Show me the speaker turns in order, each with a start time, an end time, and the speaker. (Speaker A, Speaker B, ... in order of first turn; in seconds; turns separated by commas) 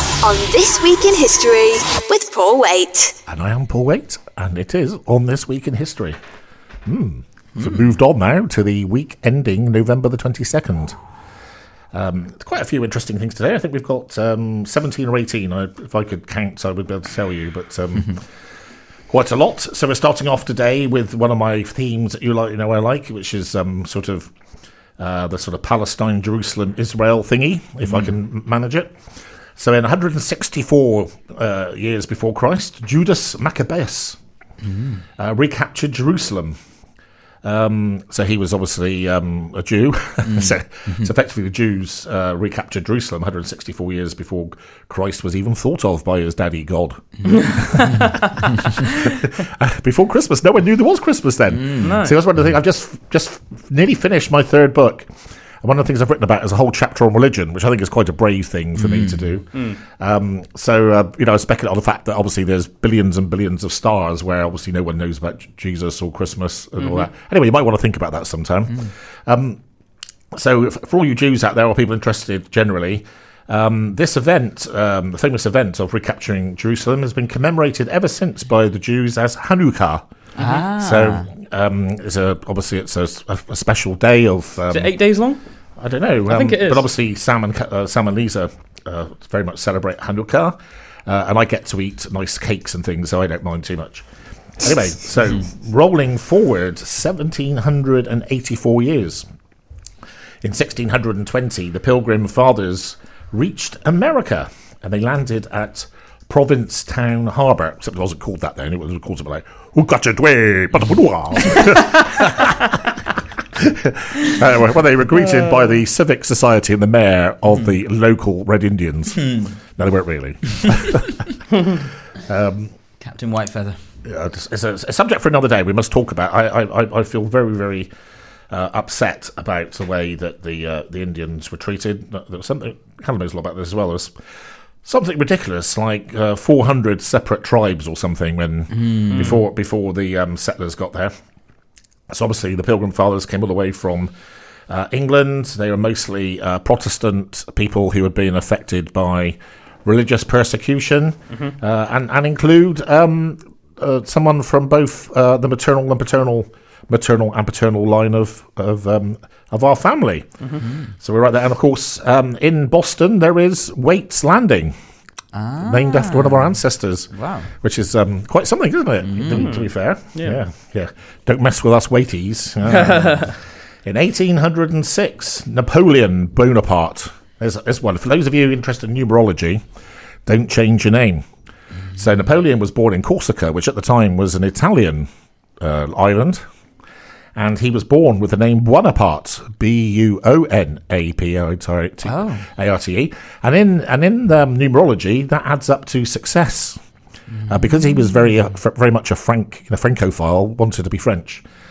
Speaker A: 0.2-3.1, Speaker B: 3.3-6.2, Speaker B: 6.8-11.0, Speaker B: 11.9-18.3, Speaker B: 19.1-24.3, Speaker B: 25.0-28.9, Speaker B: 29.6-34.2, Speaker C: 34.6-35.0, Speaker B: 35.2-36.6, Speaker B: 37.4-48.0, Speaker C: 40.2-41.1, Speaker D: 47.4-48.3, Speaker B: 48.8-55.1, Speaker C: 51.5-51.9, Speaker D: 51.8-52.2, Speaker B: 55.6-69.6, Speaker C: 58.8-59.3, Speaker D: 59.5-59.8, Speaker D: 66.8-67.1, Speaker B: 70.3-80.0, Speaker C: 80.3-81.3, Speaker B: 80.7-84.9, Speaker D: 84.7-85.4, Speaker B: 85.8-94.0, Speaker D: 86.2-86.9, Speaker B: 94.6-99.2, Speaker B: 100.4-112.8, Speaker B: 113.5-122.7, Speaker C: 119.2-119.5, Speaker C: 123.0-123.8, Speaker B: 124.0-127.9, Speaker B: 128.5-134.1, Speaker B: 134.8-141.1, Speaker C: 138.7-139.4, Speaker D: 139.1-139.4, Speaker B: 142.1-144.1, Speaker B: 144.7-160.3, Speaker D: 151.3-151.5, Speaker C: 160.6-160.9, Speaker B: 160.9-164.7, Speaker C: 165.3-167.5, Speaker B: 165.6-179.6, Speaker C: 169.0-169.5, Speaker D: 169.3-170.4, Speaker D: 172.6-173.3, Speaker B: 180.2-181.2, Speaker B: 181.9-185.1, Speaker B: 185.6-186.4, Speaker B: 187.3-196.8, Speaker C: 192.0-192.5, Speaker C: 197.4-198.0, Speaker B: 197.5-201.4